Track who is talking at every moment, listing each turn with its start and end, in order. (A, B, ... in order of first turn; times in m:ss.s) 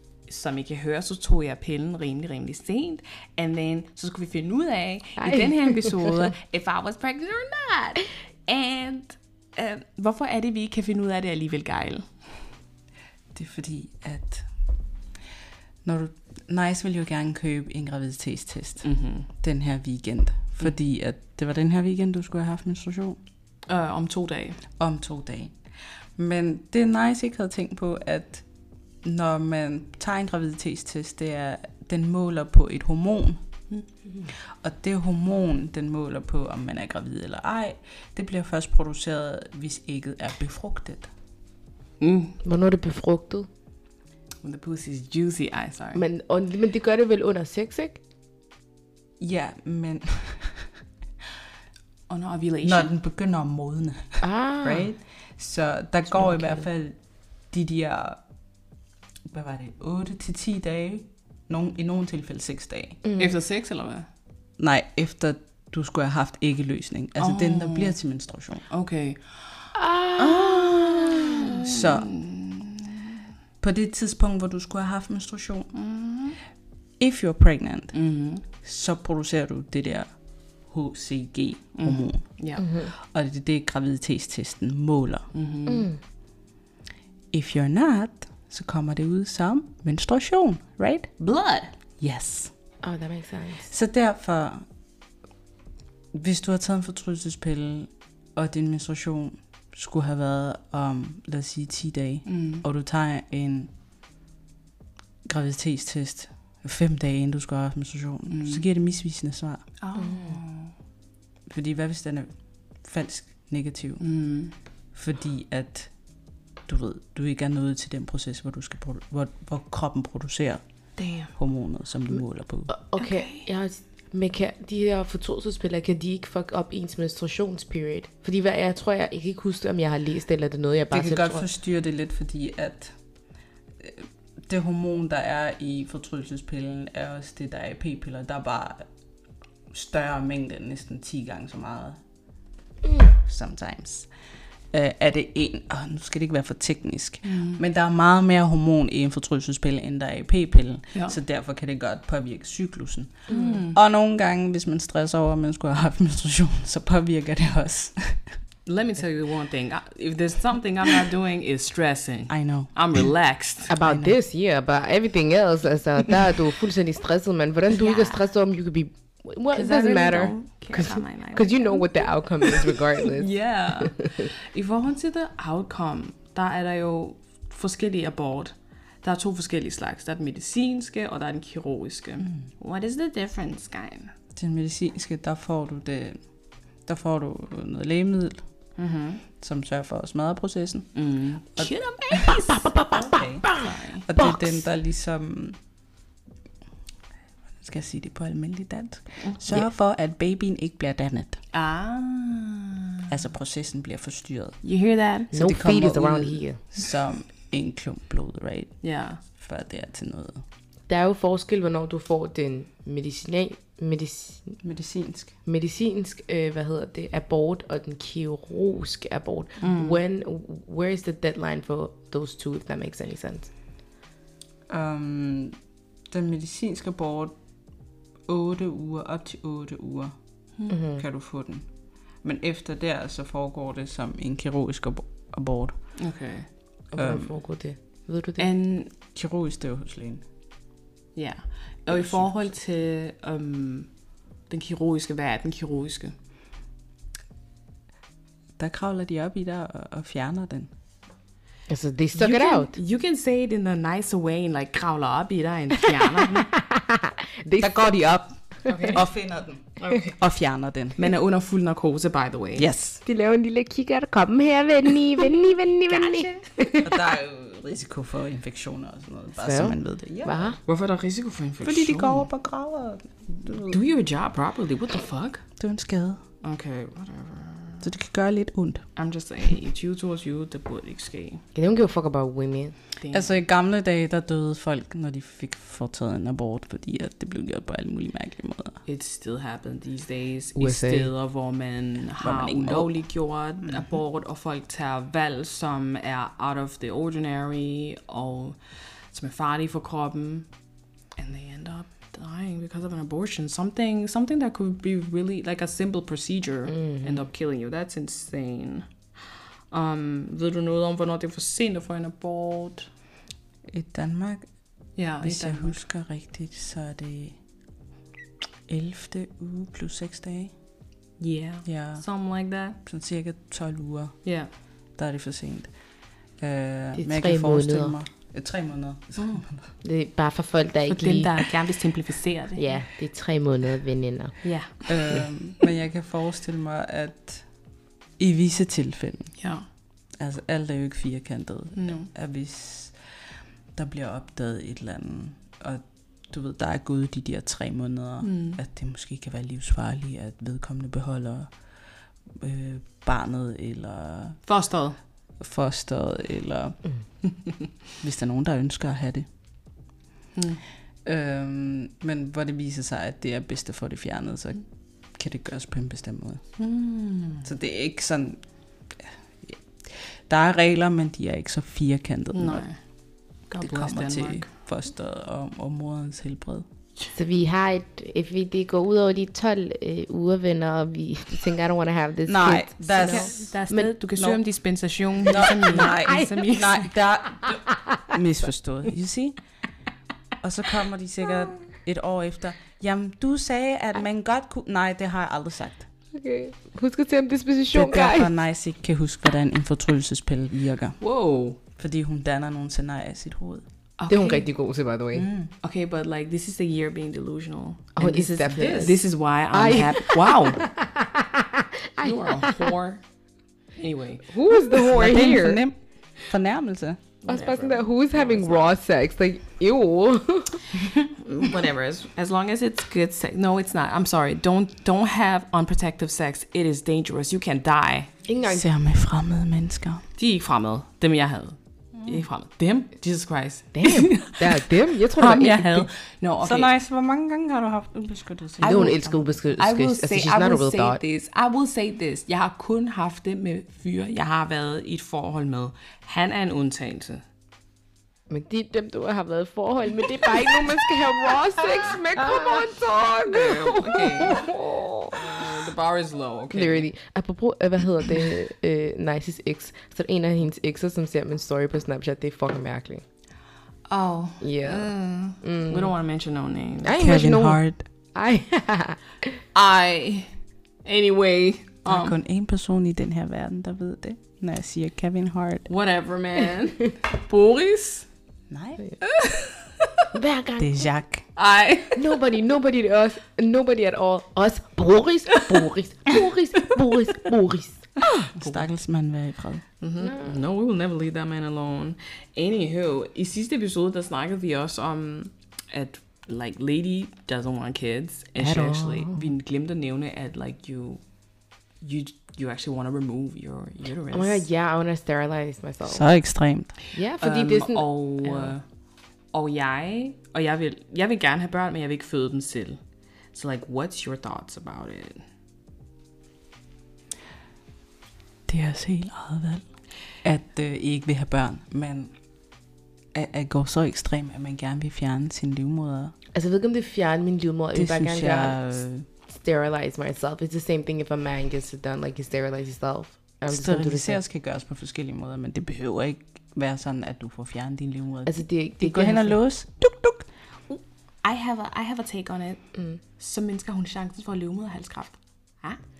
0:00.3-0:12.1 A
0:05.2-0:06.1 B
0:13.3-0:14.4 C
0:15.8-0:23.2 C
0:18.8-0:19.3 A
0:23.7-0:24.6 A
0:24.8-0:25.5 C
0:26.2-0:28.4 C
0:29.0-0:33.4 C
0:34.3-0:41.1 C
0:42.0-0:42.4 A
0:42.4-0:43.5 B
0:44.4-0:46.0 A
0:45.9-0:48.0 B
0:49.2-0:50.7 C
0:52.1-0:52.9 A
0:52.6-0:57.0 C
0:54.2-0:54.9 B
0:56.1-0:56.6 B
0:57.5-0:58.2 C
0:59.3-1:03.0 C
1:03.0-1:03.4 B
1:03.2-1:04.1 A
1:04.6-1:08.6 C
1:07.2-1:08.0 A
1:08.7-1:13.2 A
1:09.7-1:11.5 B
1:11.6-1:12.2 C
1:13.6-1:15.7 C
1:15.7-1:16.4 A
1:17.0-1:20.1 C
1:17.9-1:18.4 A
1:20.7-1:25.3 C
1:21.7-1:22.7 A
1:22.6-1:22.9 B
1:25.3-1:25.9 A
1:25.7-1:26.0 B
1:27.3-1:31.1 C
1:31.2-1:31.7 A
1:32.0-1:32.5 C
1:32.8-1:33.7 B
1:33.7-1:34.6 C
1:36.1-1:43.7 C
1:42.2-1:42.6 A
1:45.2-1:49.6 C
1:48.3-1:48.6 A
1:49.8-1:50.7 A
1:50.0-1:50.4 B
1:51.5-1:52.3 C
1:52.8-1:54.1 C
1:54.0-1:54.5 A
1:54.9-1:55.9 C
1:56.7-2:00.6 C
2:01.0-2:01.3 A
2:01.3-2:02.7 C
2:02.7-2:11.4 B
2:03.0-2:03.5 A
2:10.9-2:12.9 C
2:13.8-2:18.8 C
2:19.7-2:22.0 C
2:23.0-2:24.1 C
2:24.7-2:38.2 C
2:27.2-2:27.6 A
2:33.3-2:33.8 A
2:33.3-2:33.6 B
2:38.6-2:43.7 A
2:42.3-2:43.0 C
2:43.7-2:54.3 B
2:43.8-2:44.1 C
2:47.7-2:48.2 A
2:49.5-3:04.1 A
3:04.4-3:06.2 C
3:06.9-3:08.4 C
3:08.8-3:09.2 A
3:09.4-3:11.0 C
3:10.9-3:14.5 A
3:11.6-3:15.6 C
3:17.6-3:21.4 C
3:21.5-3:23.1 A
3:23.1-3:24.6 C
3:24.6-3:25.4 A
3:25.3-3:26.6 B
3:25.3-3:30.4 C
3:28.8-3:29.2 A
3:30.9-3:34.6 B
3:34.6-3:35.3 C
3:35.4-3:43.5 B
3:39.6-3:40.0 A
3:44.7-3:45.6 C
3:46.1-3:47.3 C
3:48.3-3:50.1 C
3:50.7-3:51.0 B
3:50.9-3:51.6 C
3:52.2-3:55.7 C
3:56.0-3:56.5 A
3:56.9-3:58.5 B
3:56.9-3:57.3 C
3:58.4-3:58.9 A
3:59.1-4:00.2 C
4:01.2-4:03.9 A
4:01.9-4:02.2 C
4:04.5-4:06.1 A
4:08.6-4:10.7 C
4:11.7-4:12.7 B
4:12.1-4:16.5 A
4:15.9-4:18.0 B
4:17.6-4:18.4 C
4:18.6-4:18.9 B
4:18.6-4:19.0 A
4:18.9-4:21.1 C
4:19.8-4:20.1 A
4:21.0-4:22.7 A
4:22.6-4:23.0 C
4:23.0-4:27.0 B
4:25.9-4:26.4 A
4:26.8-4:30.6 C
4:29.4-4:30.6 B
4:30.6-4:32.2 A
4:31.6-4:33.8 C
4:33.5-4:35.4 A
4:35.6-4:36.2 C
4:36.4-4:37.9 A
4:37.8-4:38.8 C
4:39.0-4:41.4 A
4:41.5-4:42.7 B
4:43.0-4:43.2 A
4:43.1-4:48.8 C
4:48.8-4:58.6 A
4:50.6-4:51.1 B
4:52.2-4:52.9 C
4:59.1-5:00.5 A
5:01.2-5:08.9 A
5:06.8-5:07.2 B
5:09.7-5:12.9 A
5:13.7-5:14.4 C
5:15.0-5:15.8 A
5:15.2-5:17.4 C
5:18.7-5:20.5 C
5:21.2-5:22.8 A
5:21.6-5:22.0 C
5:22.8-5:24.2 C
5:24.2-5:24.5 A
5:25.0-5:25.7 C
5:26.4-5:29.7 C
5:26.9-5:28.0 B
5:29.8-5:31.4 B
5:30.9-5:32.6 A
5:32.6-5:34.4 B
5:34.4-5:35.2 A
5:34.9-5:37.4 C
5:38.2-5:39.3 C
5:39.4-5:39.6 A
5:40.2-5:43.0 C
5:41.7-5:42.1 A
5:43.7-5:51.5 C
5:48.2-5:48.6 A
5:52.4-5:54.4 C
5:54.4-5:55.0 A
5:55.4-5:56.8 C
5:58.0-5:59.2 C
6:00.3-6:00.6 A
6:01.0-6:04.6 C
6:05.2-6:06.4 C
6:06.6-6:07.4 A
6:07.4-6:08.4 C
6:09.4-6:12.6 C
6:12.3-6:12.8 A
6:13.5-6:14.5 A
6:13.6-6:16.6 C
6:17.1-6:23.9 B
6:22.2-6:23.5 C
6:23.0-6:26.9 A
6:25.2-6:29.4 C
6:25.7-6:26.3 B
6:27.5-6:27.9 B
6:30.4-6:35.9 C
6:36.1-6:38.3 B
6:37.7-6:41.0 C
6:41.0-6:41.6 A
6:41.8-6:43.6 C
6:44.0-6:44.5 A
6:44.1-6:45.3 B
6:45.1-6:45.5 C
6:45.6-6:50.7 A
6:48.0-6:52.7 B
6:52.0-6:53.0 A
6:53.8-6:54.3 A
6:54.3-6:55.6 B
6:54.8-6:57.1 C
6:57.2-6:58.7 A
6:57.3-7:00.6 B
7:01.0-7:08.1 A
7:08.2-7:08.7 B
7:08.5-7:10.0 C
7:10.2-7:16.7 A
7:13.7-7:15.9 B
7:16.4-7:19.1 C
7:18.6-7:27.2 A
7:18.6-7:21.0 B
7:28.3-7:35.4 B
7:32.1-7:34.4 A
7:35.1-7:36.9 A
7:36.5-7:43.0 B
7:43.9-7:46.9 A
7:44.4-7:45.9 B
7:46.8-7:47.6 B
7:47.0-7:47.8 C
7:48.1-7:49.4 B
7:49.5-7:50.3 A
7:50.8-7:52.1 A
7:51.8-7:55.7 C
7:55.7-7:58.1 A
7:58.5-7:58.8 C
7:59.0-8:00.1 A
8:00.1-8:00.9 B
8:00.6-8:01.2 C
8:01.4-8:02.1 A
8:02.0-8:08.3 B
8:08.3-8:09.6 C
8:08.4-8:08.7 A
8:09.8-8:21.0 A
8:10.0-8:10.4 B
8:18.4-8:19.3 B
8:21.8-8:24.4 A
8:24.1-8:26.0 B
8:25.8-8:26.8 C
8:26.9-8:28.5 B
8:27.2-8:28.6 A
8:29.3-8:32.8 A
8:33.3-8:35.2 A
8:38.5-8:39.6 C
8:40.2-8:42.1 C
8:43.1-8:46.1 C
8:46.3-8:54.2 B
8:47.7-8:49.0 C
8:53.5-9:00.8 C
8:58.2-8:59.4 B
9:01.2-9:02.6 A
9:02.7-9:03.0 B
9:03.2-9:05.8 A